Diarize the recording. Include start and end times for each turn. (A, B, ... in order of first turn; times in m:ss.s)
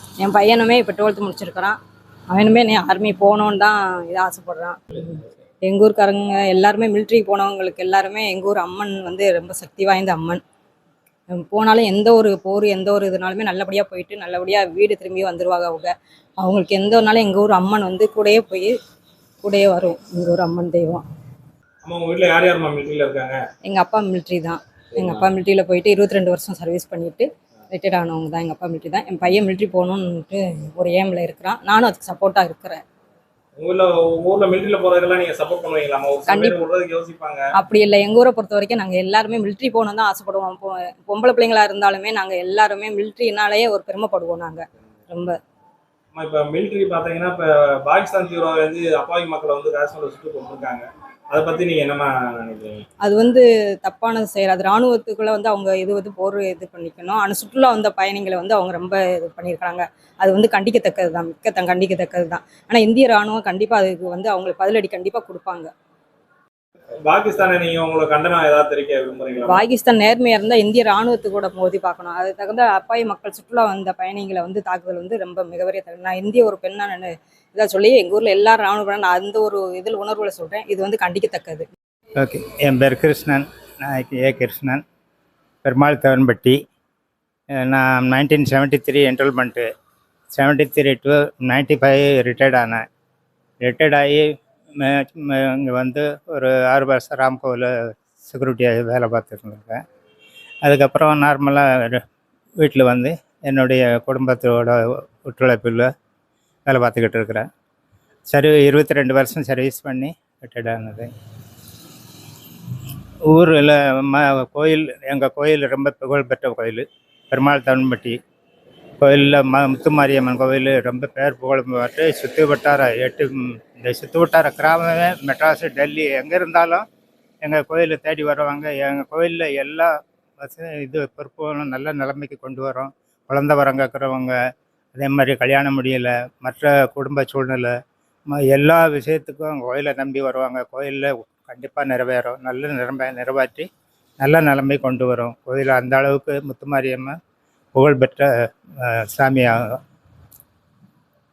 0:00.2-0:01.8 A
0:02.3-0:10.4 A
0:11.3-0:18.7 A
0:19.4-0:21.0 A
0:21.8-0:23.4 B
0:23.6-0:32.8 A
0:25.0-0:25.3 B
0:33.6-0:37.4 B
0:36.3-0:36.6 A
0:37.6-0:45.3 A
0:46.1-0:52.8 B
0:53.0-1:05.7 A
1:07.0-1:09.6 B
1:09.5-1:21.6 A
1:22.2-1:24.8 C
1:25.6-1:26.6 C
1:27.6-1:29.6 C
1:30.3-1:32.8 C
1:33.6-1:34.2 C
1:34.8-1:37.7 C
1:38.2-1:39.8 C
1:40.6-1:42.0 C
1:42.6-1:45.9 C
1:46.7-1:47.4 C
1:48.3-1:51.1 C
1:53.3-1:58.2 C
1:59.0-2:06.8 C
2:07.4-2:09.9 C
2:10.4-2:14.3 C
2:14.9-2:17.7 C
2:18.3-2:23.7 C
2:24.2-2:27.2 C
2:27.8-2:28.3 C
2:28.8-2:29.8 C